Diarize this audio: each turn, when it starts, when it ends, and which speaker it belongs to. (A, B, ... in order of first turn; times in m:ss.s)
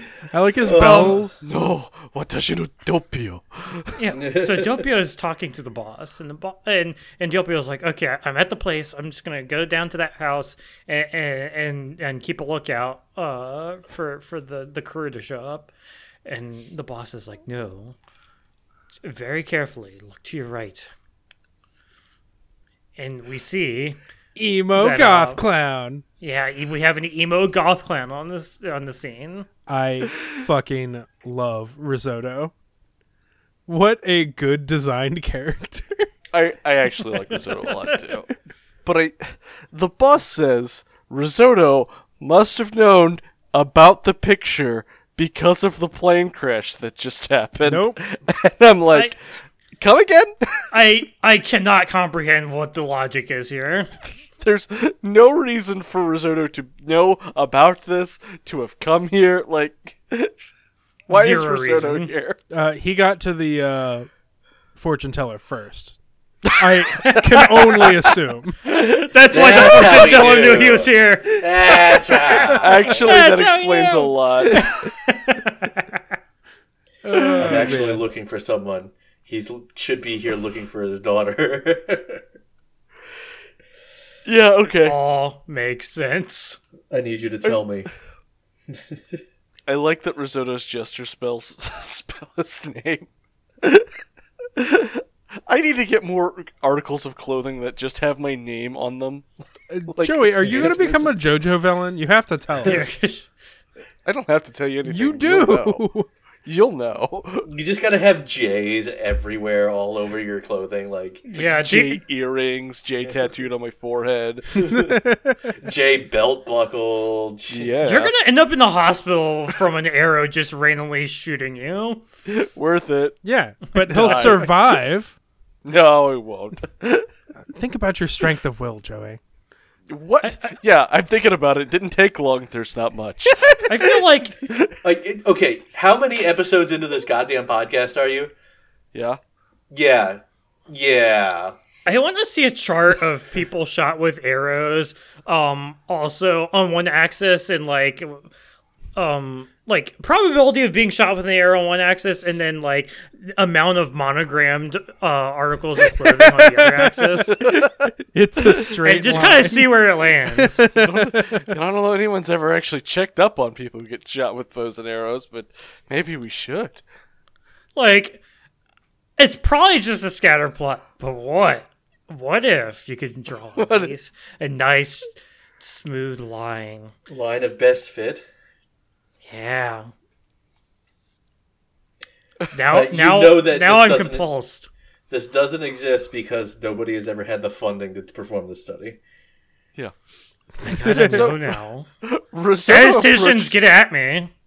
0:00.3-0:01.6 A
0:00.6-0:01.2 B
0:00.8-0:01.2 C
0:01.4-0:04.0 D
0:04.0-0:15.7 C
0:04.1-0:04.8 B
0:16.3-0:18.0 C
0:19.0-0:20.9 C
0:23.0-0:24.0 C
0:24.4-0:26.0 A
0:24.7-0:25.4 C
0:26.2-0:29.5 C
0:29.7-0:32.5 A
0:33.7-0:36.1 A
0:36.3-0:38.3 D
0:37.3-0:38.0 C
0:38.8-0:49.2 D
0:47.6-0:48.0 A
0:49.8-0:50.7 D
0:50.7-0:53.9 C
0:54.4-1:00.4 D
1:01.1-1:02.4 D
1:01.1-1:02.1 C
1:02.5-1:04.1 A
1:04.8-1:06.0 A
1:06.5-1:08.0 D
1:06.5-1:08.6 A
1:08.7-1:10.6 D
1:09.0-1:11.4 C
1:09.3-1:13.2 B
1:11.6-1:12.4 A
1:12.3-1:16.0 C
1:12.5-1:14.7 D
1:17.0-1:18.0 A
1:17.4-1:22.2 B
1:24.2-1:25.0 D
1:24.8-1:26.6 C
1:26.9-1:27.9 B
1:28.7-1:29.0 B
1:29.7-1:33.1 D
1:33.6-1:33.9 D
1:34.6-1:39.3 D
1:39.7-1:42.9 A
1:39.9-1:41.3 D
1:42.6-1:43.3 C
1:44.0-1:45.8 D
1:44.9-1:46.1 A
1:46.4-1:47.5 D
1:47.4-1:51.2 B
1:51.2-1:52.0 C
1:51.6-1:54.8 D
1:54.6-1:54.9 B
1:54.7-1:55.5 A
1:55.6-1:57.8 B
1:57.5-1:58.1 D
1:57.8-2:02.0 C
2:02.3-2:03.2 D
2:03.2-2:05.2 A
2:03.8-2:04.8 D
2:05.6-2:07.1 D
2:07.5-2:09.2 A
2:09.9-2:14.8 D
2:10.2-2:10.5 C
2:13.7-2:14.4 C
2:14.8-2:18.3 B
2:18.9-2:19.2 D
2:19.7-2:21.6 B
2:21.9-2:28.3 C
2:29.0-2:37.4 C
2:37.2-2:38.7 D
2:37.5-2:39.8 A
2:38.8-2:40.6 C
2:40.4-2:41.5 A
2:40.7-2:46.8 D
2:47.8-2:48.2 C
2:49.2-2:56.9 C
2:53.6-2:53.9 D
2:57.1-2:58.3 B
2:59.2-2:59.9 C
3:02.5-3:04.7 C
3:02.7-3:04.3 B
3:05.1-3:09.0 B
3:10.6-3:11.9 C
3:10.7-3:11.4 A
3:10.9-3:13.5 D
3:12.6-3:14.3 C